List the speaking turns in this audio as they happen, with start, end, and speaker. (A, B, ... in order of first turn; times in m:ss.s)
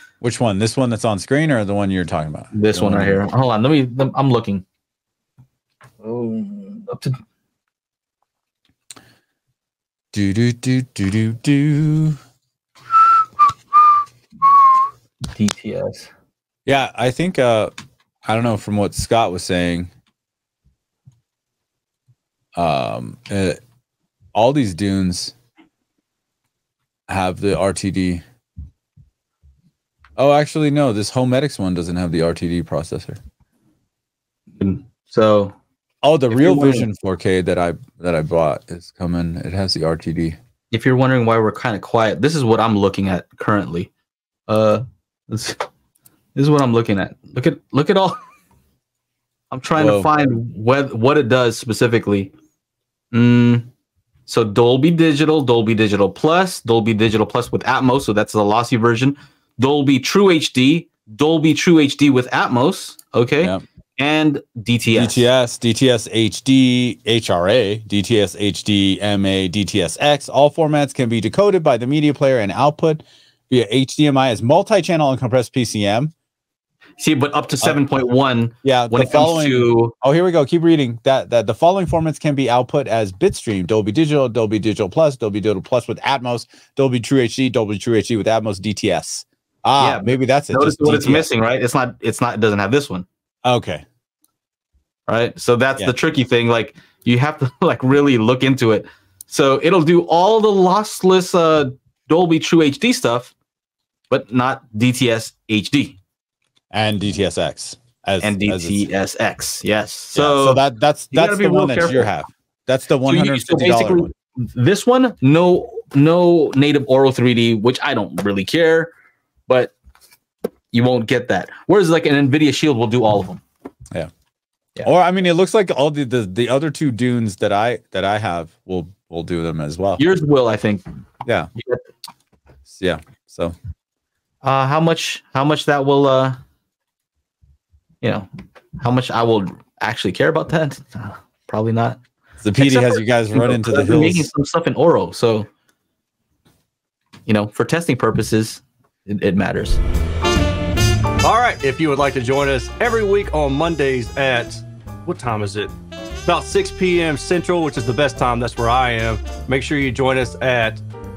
0:00.2-0:03.2 A
0:02.5-0:04.6 B
0:06.0-0:07.2 B
0:10.1-0:12.2 A
0:15.3-0:16.1 B
0:16.6-0:17.7 A
0:18.2-0:19.9 A
0:22.6-0:23.6 A
0:24.3-0:25.3 A
0:27.1-0:28.2 A
0:30.2-0:33.2 A
0:34.6-0:35.5 B
0:36.0-0:40.4 A
0:36.3-0:36.9 B
0:40.7-0:43.9 B
0:44.5-0:45.6 B
0:46.3-0:48.2 B
0:49.5-0:52.3 B
0:49.8-0:50.1 A
0:53.1-0:53.7 B
0:54.3-1:05.3 B
1:04.9-1:16.1 A
1:17.0-1:19.9 B
1:18.6-1:31.3 A
1:29.8-1:33.0 B
1:33.4-1:33.8 A
1:35.1-1:43.3 B
1:44.1-1:46.0 B
1:46.7-1:48.8 A
1:48.2-1:50.6 B
1:50.1-1:54.1 A
1:51.1-1:52.1 B
1:53.0-1:58.9 B
1:59.5-1:59.7 B
2:00.7-2:03.4 B
2:04.8-2:10.0 A
2:10.0-2:10.8 B
2:12.7-2:13.5 A
2:14.4-2:16.4 B
2:18.0-2:18.3 B
2:18.8-2:22.0 B
2:22.4-2:24.3 A
2:22.6-2:25.5 B
2:27.2-2:29.8 B
2:31.2-2:35.7 C
2:36.2-2:40.8 C